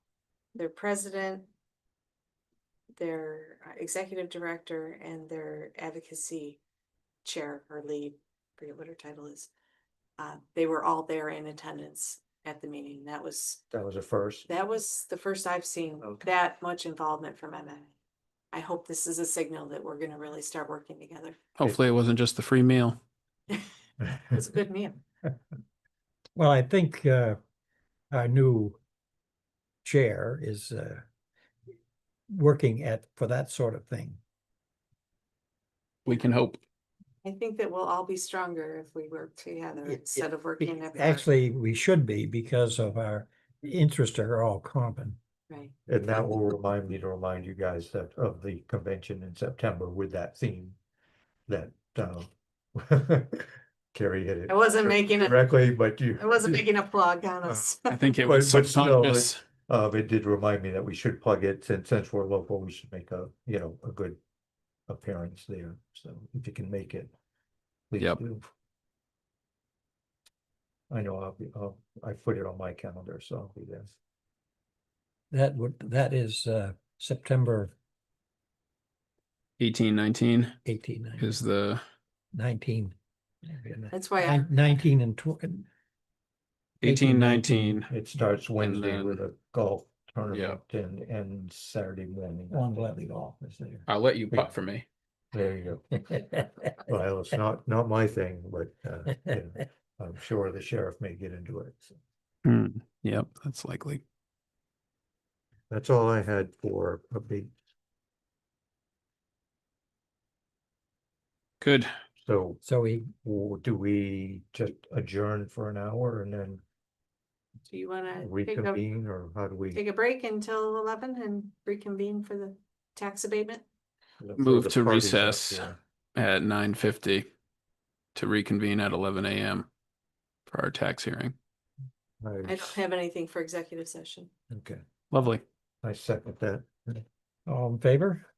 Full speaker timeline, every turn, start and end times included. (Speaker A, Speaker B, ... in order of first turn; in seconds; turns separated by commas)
Speaker A: 0.6-1.5, Speaker A: 3.0-6.6, Speaker A: 7.2-9.5, Speaker A: 10.2-13.6, Speaker B: 13.7-14.5, Speaker A: 14.5-17.9, Speaker A: 18.5-21.4, Speaker C: 21.6-23.0, Speaker A: 24.3-25.0, Speaker D: 26.4-27.4, Speaker D: 28.1-28.8, Speaker D: 29.8-31.0, Speaker D: 32.3-34.2, Speaker C: 36.0-36.6, Speaker A: 37.2-41.2, Speaker D: 39.9-45.2, Speaker B: 45.9-50.8, Speaker B: 51.5-56.6, Speaker A: 54.5-55.4, Speaker A: 56.2-58.0, Speaker C: 57.9-59.4, Speaker B: 58.2-64.2, Speaker B: 64.9-67.1, Speaker B: 67.9-68.5, Speaker B: 70.9-73.9, Speaker D: 75.3-77.7, Speaker C: 79.6-80.5, Speaker D: 80.6-81.4, Speaker C: 81.2-81.8, Speaker D: 82.3-85.7, Speaker A: 83.9-84.5, Speaker C: 86.8-87.9, Speaker D: 86.8-87.8, Speaker B: 87.9-92.8, Speaker C: 88.6-89.2, Speaker C: 90.3-90.6, Speaker D: 92.5-93.8, Speaker C: 93.9-94.8, Speaker B: 95.3-102.0, Speaker C: 102.4-104.0, Speaker B: 105.7-107.5, Speaker C: 111.6-111.9, Speaker B: 112.2-112.6, Speaker D: 112.6-113.1, Speaker B: 113.2-116.6, Speaker A: 117.7-118.8, Speaker B: 118.2-119.8, Speaker A: 119.7-123.6, Speaker B: 124.2-125.8, Speaker C: 124.4-127.3, Speaker C: 128.1-129.7, Speaker C: 130.5-131.3, Speaker B: 132.2-132.8, Speaker A: 132.4-134.3, Speaker B: 134.5-134.8, Speaker C: 135.1-135.4, Speaker B: 135.8-137.0, Speaker D: 137.5-138.3